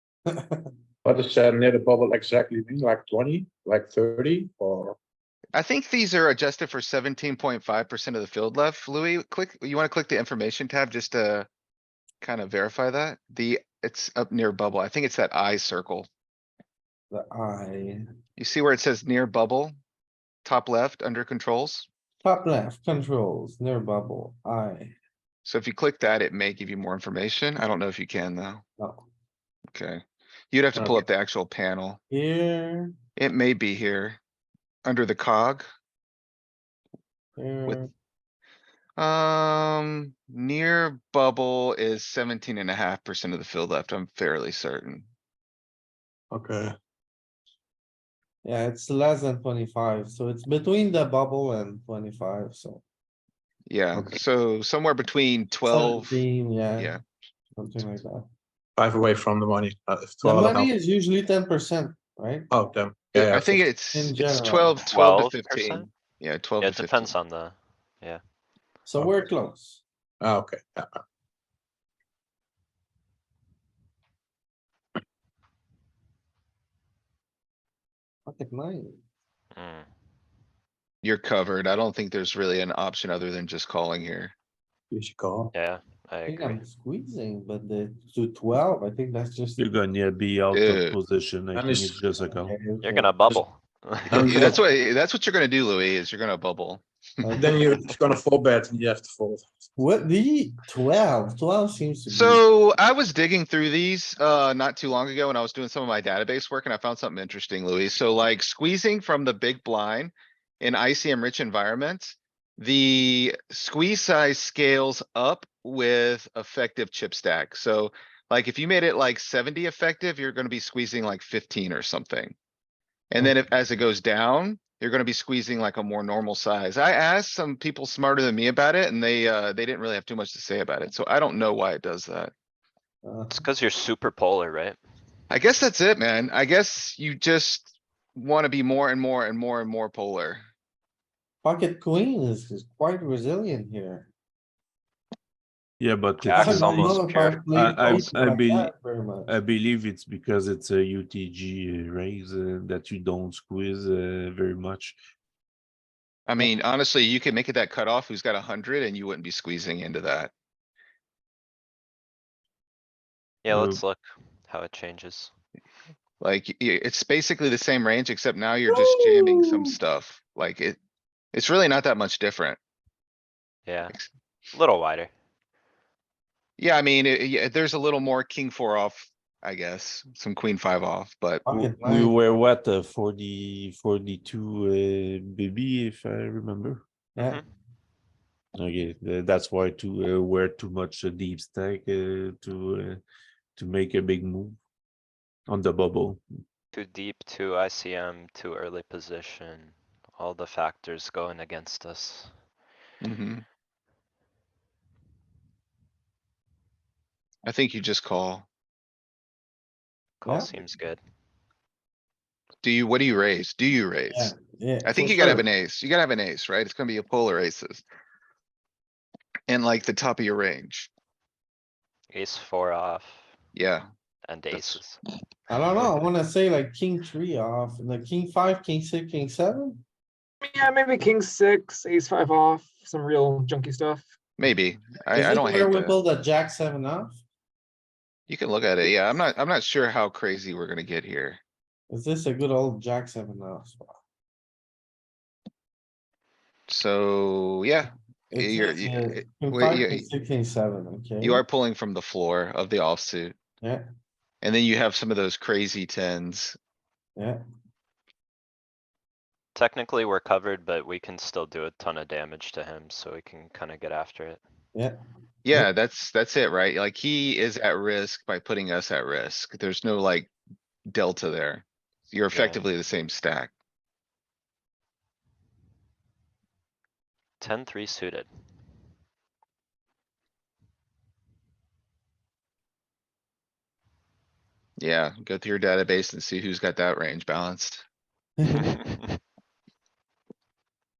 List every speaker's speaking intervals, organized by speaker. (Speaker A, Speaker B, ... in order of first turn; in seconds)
Speaker A: 0.3-0.6, 17.1-18.0, 22.2-24.9, 32.1-32.9, 37.4-37.9, 48.4-52.8, 55.6-56.9, 57.6-58.3, 60.2-62.5, 63.7-64.8, 68.8-69.8, 78.3-79.0, 86.2-89.7, 92.2-93.1, 97.2-97.6, 99.8-102.4, 133.0-133.4, 141.4-144.1, 146.3-149.3, 181.4-182.1, 187.2-187.4, 210.2-210.5, 214.1-215.4, 225.5-229.8, 235.1-237.2, 241.9-243.9, 248.3-251.4, 288.4-288.8
Speaker B: 1.0-5.0, 30.7-31.0, 46.3-46.7, 58.8-60.7, 62.5-63.6, 69.0-69.3, 70.2-71.0, 84.9-85.5, 91.5-92.0, 94.1-94.6, 97.3-99.5
Speaker C: 5.5-11.5, 12.2-16.1, 18.4-19.8, 20.4-21.9, 25.4-28.6, 29.7-32.0, 33.2-34.2, 34.8-35.6, 39.0-45.0, 53.7-56.2, 56.8-57.0, 63.1-67.1, 81.0-84.3, 90.5-91.0, 94.2-97.5, 102.1-122.3, 123.1-132.3, 135.3-140.4, 156.3-160.3, 166.2-170.8, 171.3-172.6, 176.6-181.4, 203.0-203.4, 207.4-208.4, 212.6-214.3, 214.8-217.8, 219.5-220.9, 223.5-223.9, 224.5-224.8, 234.4-235.9, 238.3-241.4, 246.7-250.1, 251.2-253.3, 254.4-256.6, 265.4-270.3, 270.9-273.5, 284.8-287.8
Speaker D: 64.9-65.9, 66.6-68.2, 79.5-79.9, 85.5-86.6, 92.8-94.4, 133.3-134.8, 146.2-148.2, 163.4-165.3, 173.7-173.9, 174.5-175.1, 196.7-202.3, 210.2-211.0, 222.1-223.3, 224.2-225.0, 259.5-264.4, 272.3-272.6, 277.4-278.3, 288.5-289.2
Speaker E: 89.6-92.5, 145.8-148.7, 149.2-155.0, 163.5-163.8, 181.5-186.8, 188.6-193.0, 193.6-194.6, 195.5-196.2
Speaker F: 168.7-169.7, 230.4-234.0